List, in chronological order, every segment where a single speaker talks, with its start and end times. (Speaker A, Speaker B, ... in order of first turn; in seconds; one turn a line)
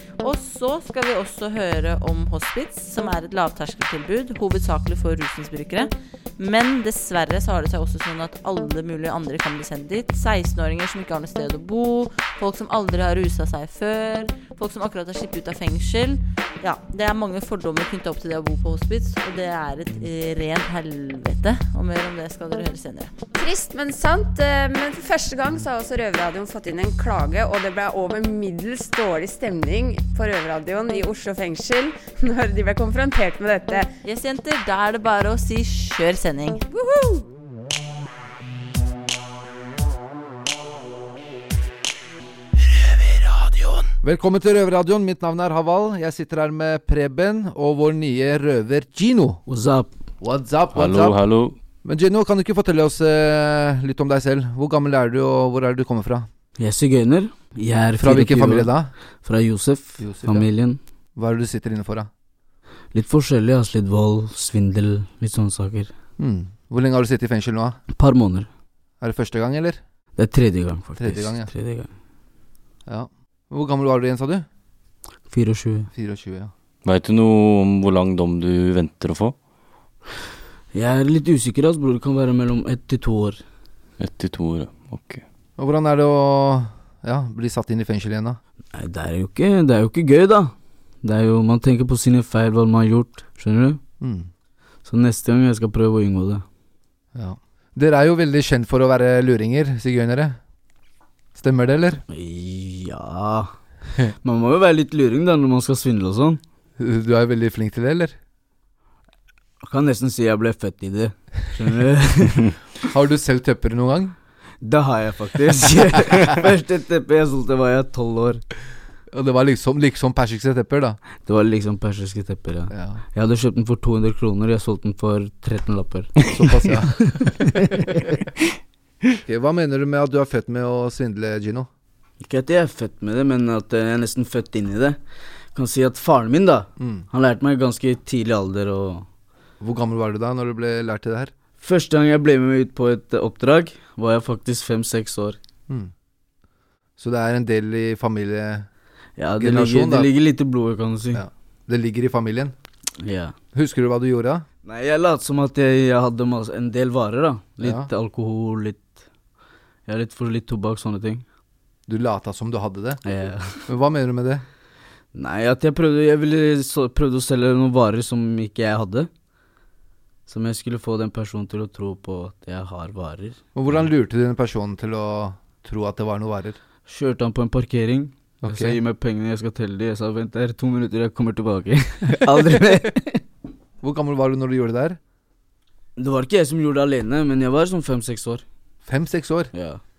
Speaker A: 0.2-23.1
Speaker B: 23.4-33.9
Speaker A: 34.0-36.6
Speaker B: 36.7-37.2
Speaker C: 44.0-49.4
Speaker D: 49.5-49.9
Speaker C: 50.2-51.2
Speaker E: 50.7-51.6
Speaker C: 51.8-56.3
Speaker D: 56.6-58.7
Speaker C: 58.0-58.9
Speaker D: 59.2-60.8
Speaker C: 60.0-60.5
Speaker C: 61.2-62.1
Speaker D: 62.9-65.9
Speaker C: 66.2-67.8
Speaker D: 67.9-68.5
Speaker C: 69.0-69.8
Speaker D: 70.2-71.9
Speaker C: 71.0-71.5
Speaker C: 72.9-74.5
Speaker D: 75.3-75.9
Speaker C: 75.9-76.5
Speaker E: 76.8-79.4
Speaker D: 80.7-83.4
Speaker E: 84.0-85.2
Speaker C: 85.6-88.4
Speaker D: 88.7-93.8
Speaker C: 94.0-94.3
Speaker D: 94.9-96.5
Speaker C: 97.2-100.4
Speaker C: 101.4-102.0
Speaker D: 102.1-103.5
Speaker D: 104.2-106.4
Speaker C: 106.8-108.2
Speaker D: 109.6-112.5
Speaker C: 112.8-114.2
Speaker D: 114.6-118.4
Speaker C: 119.1-121.0
Speaker D: 121.2-127.3
Speaker C: 122.7-123.0
Speaker C: 126.3-127.5
Speaker C: 129.2-131.7
Speaker D: 132.2-135.0
Speaker D: 135.5-139.1
Speaker C: 136.8-137.1
Speaker C: 139.6-141.3
Speaker D: 141.6-145.4
Speaker C: 147.0-148.7
Speaker D: 149.2-151.2
Speaker C: 149.4-150.1
Speaker C: 151.1-152.5
Speaker D: 153.0-153.3
Speaker C: 153.5-154.4
Speaker D: 154.7-159.0
Speaker C: 157.6-157.9
Speaker D: 159.9-161.2
Speaker C: 161.9-163.0
Speaker D: 163.1-163.6
Speaker C: 163.7-164.4
Speaker D: 165.1-169.1
Speaker D: 170.3-173.4
Speaker C: 173.6-176.6
Speaker D: 176.9-183.2
Speaker C: 178.4-178.8
Speaker C: 183.8-185.0
Speaker D: 186.0-188.4
Speaker C: 188.9-189.5
Speaker D: 189.5-189.8